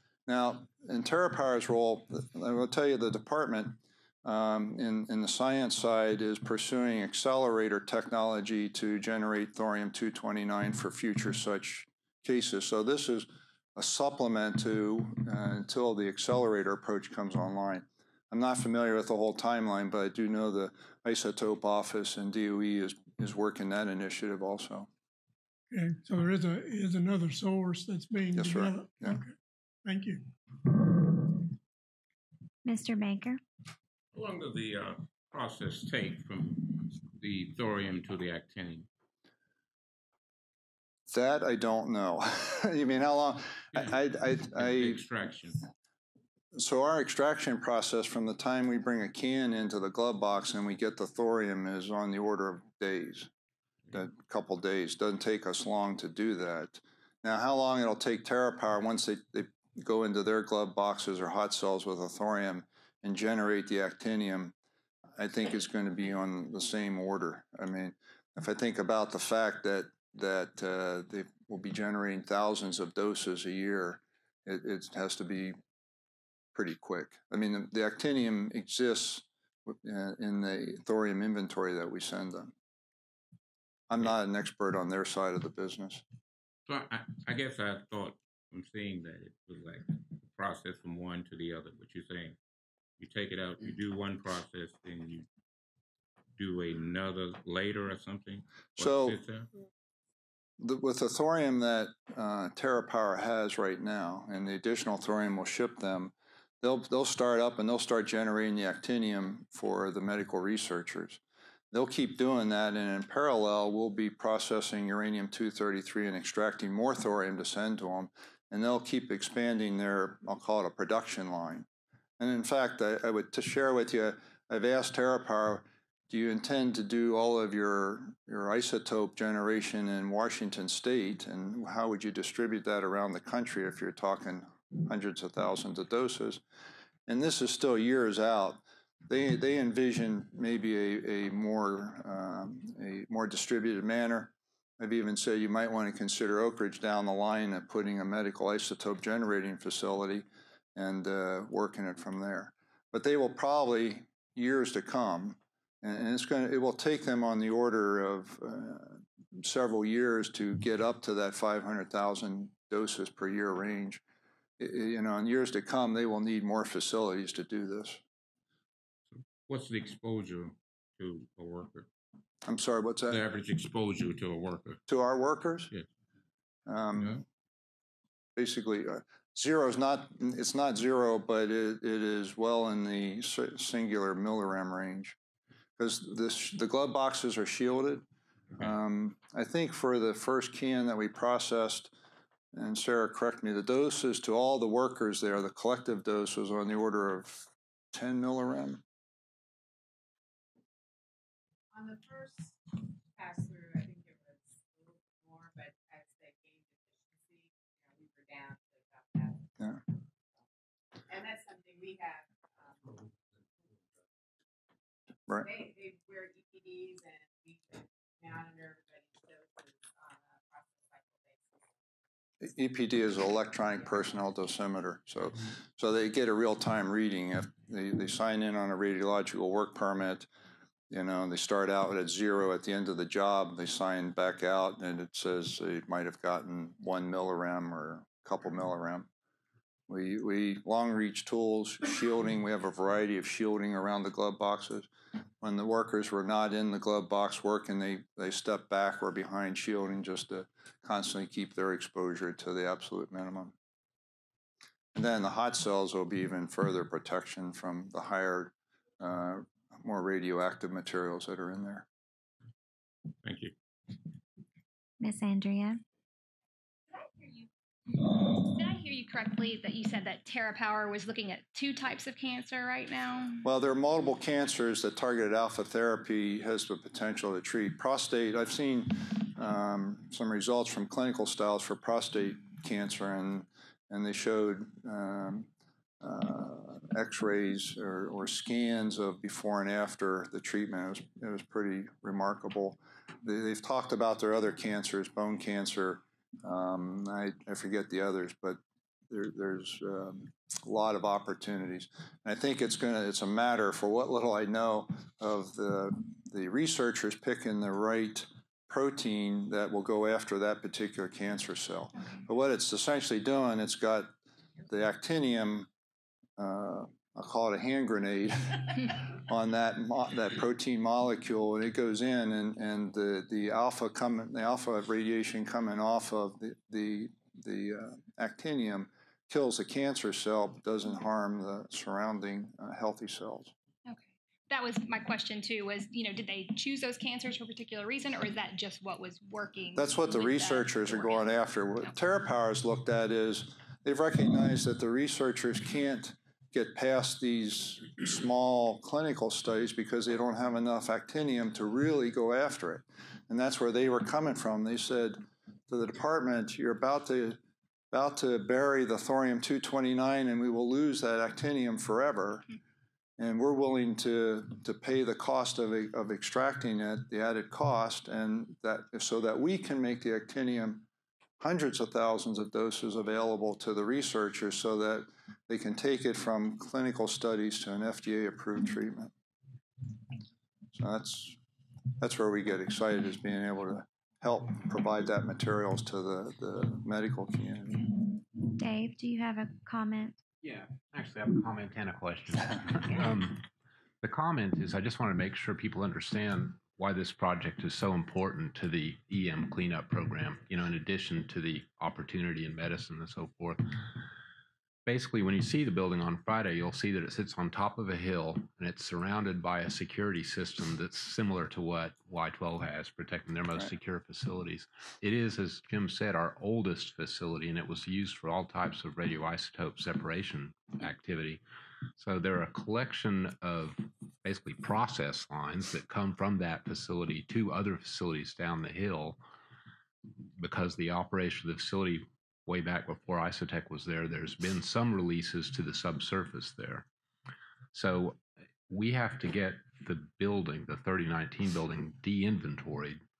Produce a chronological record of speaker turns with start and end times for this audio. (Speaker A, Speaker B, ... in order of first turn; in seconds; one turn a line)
Speaker A: 0.3-24.9
Speaker B: 25.7-29.3
Speaker A: 28.3-29.2
Speaker B: 29.8-30.3
Speaker C: 32.6-33.4
Speaker D: 34.1-38.9
Speaker A: 41.1-45.0
Speaker D: 43.7-45.6
Speaker A: 46.5-53.3
Speaker A: 53.9-64.5
Speaker A: 65.2-75.6
Speaker A: 76.5-82.5
Speaker A: 83.9-86.0
Speaker D: 86.7-92.4
Speaker D: 93.0-95.3
Speaker D: 96.3-99.5
Speaker A: 98.8-99.2
Speaker A: 100.6-111.2
Speaker A: 111.7-121.6
Speaker A: 122.2-136.4
Speaker A: 137.1-164.0
Speaker A: 164.6-168.0
Speaker D: 169.1-171.9
Speaker A: 172.4-173.2
Speaker D: 173.1-174.8
Speaker A: 174.9-175.7
Speaker A: 176.7-177.2
Speaker D: 176.9-177.2
Speaker A: 178.3-185.2
Speaker A: 185.8-188.0
Speaker A: 188.6-191.9
Speaker A: 192.5-198.8
Speaker E: 201.7-209.8
Speaker E: 211.1-213.1
Speaker E: 215.3-221.7
Speaker A: 222.4-230.3
Speaker A: 230.9-239.1
Speaker A: 239.9-244.9
Speaker A: 245.4-253.5
Speaker A: 254.9-261.8
Speaker D: 263.2-263.5
Speaker C: 265.0-265.8
Speaker E: 266.9-267.5
Speaker F: 268.3-273.4
Speaker A: 273.4-285.5
Speaker A: 286.0-314.1
Speaker A: 314.7-315.7
Speaker A: 316.4-333.5
Speaker F: 333.9-341.2
Speaker A: 339.7-357.4
Speaker A: 357.9-362.4
Speaker A: 363.2-370.8
Speaker A: 371.4-379.1
Speaker A: 380.7-381.4
Speaker A: 382.0-387.9
Speaker C: 388.6-390.2
Speaker G: 390.4-393.4
Speaker G: 394.0-403.8
Speaker G: 404.9-421.4
Speaker G: 421.9-429.2
Speaker G: 430.4-436.9
Speaker G: 437.7-443.0